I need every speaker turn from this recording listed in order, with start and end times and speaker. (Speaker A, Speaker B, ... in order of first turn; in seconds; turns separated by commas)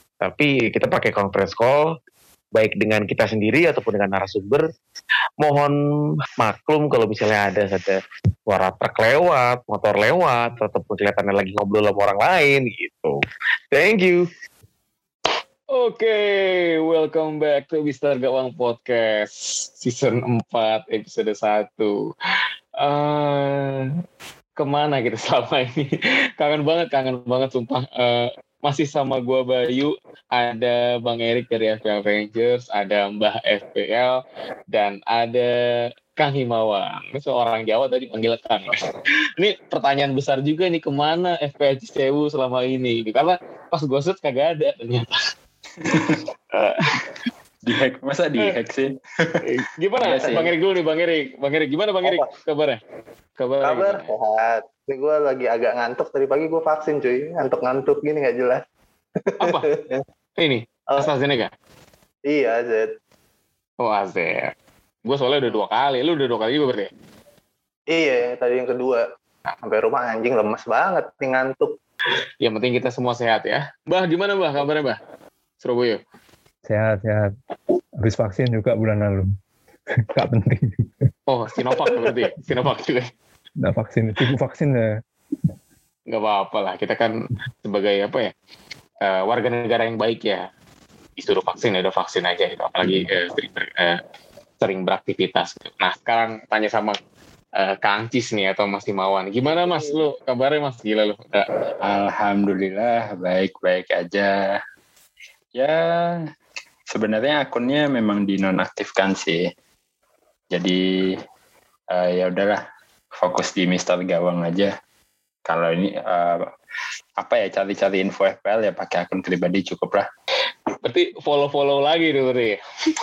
Speaker A: 0.2-2.0, Speaker A: 2.5-4.7, Speaker A: 5.4-13.2, Speaker A: 13.7-14.3, Speaker B: 15.7-21.9, Speaker B: 22.8-23.9, Speaker B: 24.6-34.2, Speaker B: 34.7-35.5, Speaker B: 36.2-45.1, Speaker C: 45.8-46.2, Speaker B: 46.5-47.0, Speaker C: 47.6-49.4, Speaker B: 49.4-52.8, Speaker C: 50.0-50.5, Speaker B: 53.4-54.1, Speaker D: 53.6-58.6, Speaker D: 59.2-60.0, Speaker B: 59.4-59.7, Speaker B: 60.4-61.5, Speaker D: 62.3-62.9, Speaker B: 63.8-64.5, Speaker B: 65.1-66.9, Speaker D: 67.9-69.0, Speaker D: 69.6-71.8, Speaker B: 72.4-75.0, Speaker B: 75.6-76.0, Speaker E: 76.7-77.3, Speaker E: 78.0-79.3, Speaker E: 80.1-80.9, Speaker B: 81.3-83.1, Speaker E: 83.6-85.0, Speaker B: 86.1-87.1, Speaker B: 87.6-88.3, Speaker B: 89.0-90.5, Speaker B: 91.2-94.0, Speaker B: 94.6-97.0, Speaker B: 97.6-101.5, Speaker D: 99.7-100.0, Speaker C: 101.8-104.6, Speaker C: 105.5-106.2, Speaker C: 106.9-109.5, Speaker C: 110.5-111.2, Speaker C: 111.9-112.6, Speaker C: 113.1-114.7, Speaker C: 115.5-116.5, Speaker C: 117.2-120.1, Speaker B: 120.8-122.6